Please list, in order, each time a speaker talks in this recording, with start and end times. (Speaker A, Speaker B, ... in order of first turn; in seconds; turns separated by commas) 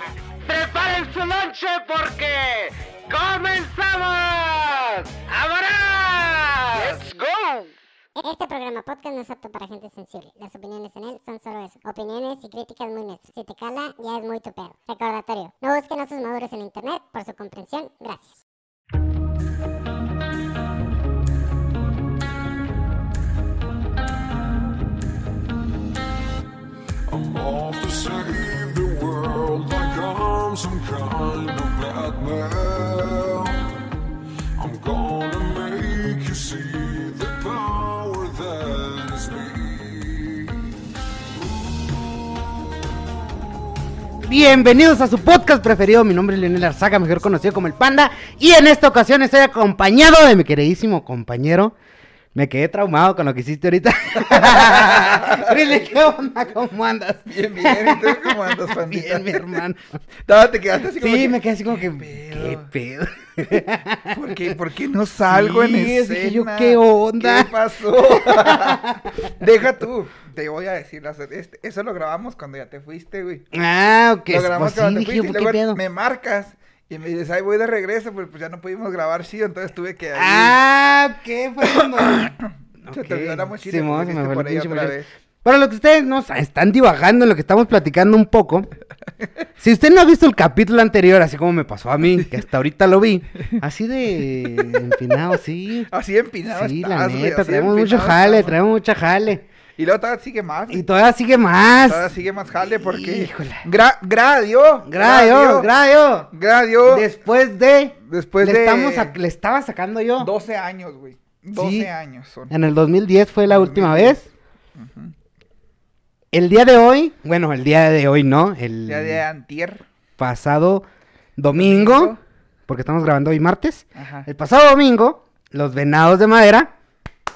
Speaker A: 0.5-7.7, Speaker B: 8.2-18.3, Speaker C: 27.1-33.8, Speaker C: 34.6-40.7, Speaker D: 44.2-51.7, Speaker D: 52.3-60.0, Speaker E: 54.2-55.7, Speaker E: 57.3-59.6, Speaker E: 60.2-62.7, Speaker D: 61.0-64.4, Speaker E: 64.1-73.4, Speaker D: 65.3-69.2, Speaker D: 73.5-75.8, Speaker E: 74.3-80.6, Speaker D: 80.1-82.3, Speaker E: 81.7-85.1, Speaker D: 82.8-88.7, Speaker D: 89.6-95.9, Speaker E: 94.5-94.9, Speaker E: 95.9-98.6, Speaker D: 96.5-99.4, Speaker E: 99.8-100.8, Speaker D: 100.7-102.1, Speaker E: 101.8-105.7, Speaker D: 102.6-103.6, Speaker D: 104.8-106.3, Speaker E: 106.3-107.1, Speaker D: 106.8-110.3, Speaker E: 108.0-109.1, Speaker E: 110.2-112.5, Speaker D: 111.5-111.9, Speaker D: 112.5-114.3, Speaker E: 113.5-114.2, Speaker E: 114.8-115.1, Speaker D: 116.3-119.2, Speaker E: 118.8-119.8, Speaker D: 120.2-122.1, Speaker E: 121.5-122.2, Speaker D: 122.7-126.7, Speaker E: 123.9-124.3